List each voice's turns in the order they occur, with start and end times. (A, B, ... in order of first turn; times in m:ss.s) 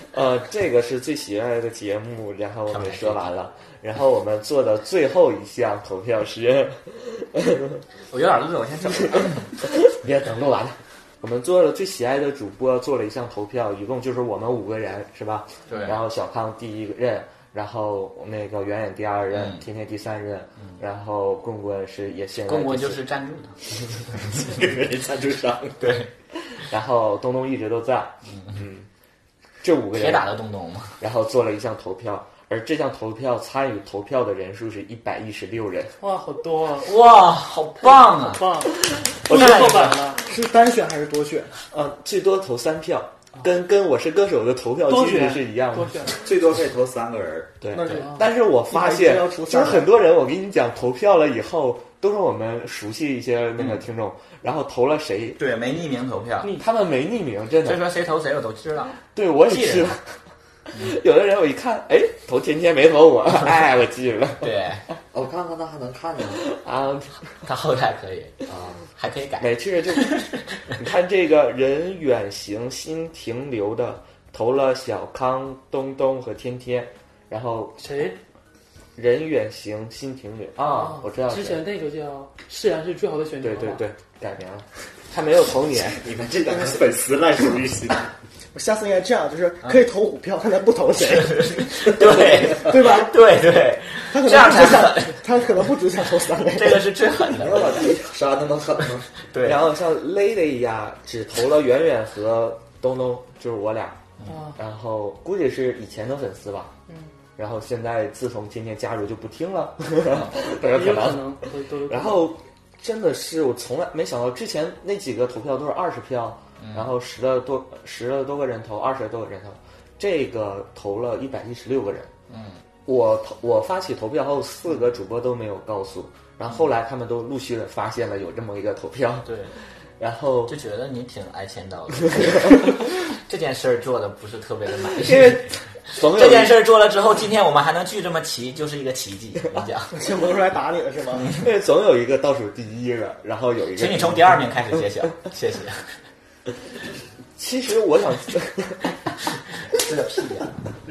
0:00.1-0:07.8 A
0:02.7-0:03.3 B
0:08.1-0:09.5 B
0:09.2-0:23.0 A
0:15.7-0:16.0 B
0:19.3-0:19.6 B
0:22.5-0:23.6 B
0:24.4-0:25.8 C
0:25.8-0:26.1 B
0:26.6-0:28.9 A
0:29.6-0:30.3 A
0:30.0-0:31.0 B
0:31.0-0:35.9 A
0:36.0-0:36.9 D
0:36.8-0:38.5 B
0:38.1-0:40.2 D
0:39.3-0:40.0 A
0:39.3-0:39.9 B
0:40.2-0:41.5 E
0:41.7-0:46.2 A
0:44.9-0:46.3 D
0:46.1-0:47.6 C
0:47.6-0:55.4 A
0:47.7-0:49.9 E
0:55.4-0:56.5 B
0:56.6-0:57.8 A
0:57.6-1:00.0 B
0:59.1-1:00.1 A
1:00.8-1:04.5 A
1:04.4-1:04.8 B
1:05.1-1:06.5 C
1:06.3-1:07.2 A
1:07.4-1:08.4 B
1:08.5-1:08.8 C
1:08.9-1:10.4 B
1:09.4-1:10.2 A
1:10.8-1:17.9 A
1:17.8-1:18.2 D
1:19.0-1:21.7 A
1:20.6-1:23.8 D
1:23.4-1:26.1 A
1:26.0-1:28.1 C
1:28.5-1:31.7 E
1:31.1-1:35.2 B
1:32.5-1:33.1 E
1:34.1-1:36.9 E
1:36.5-1:37.9 B
1:37.4-1:39.1 C
1:39.2-1:39.6 B
1:39.4-1:44.0 A
1:44.3-1:44.6 D
1:44.6-1:46.7 A
1:47.4-2:02.1 A
1:50.6-1:52.3 D
1:56.6-1:56.9 B
2:02.3-2:02.6 B
2:02.9-2:09.3 A
2:09.3-2:09.6 B
2:10.0-2:10.6 A
2:10.5-2:19.9 B
2:15.0-2:16.6 A
2:19.9-2:21.3 E
2:21.4-2:24.3 A
2:23.8-2:25.9 B
2:27.4-2:28.9 A
2:29.8-2:30.6 B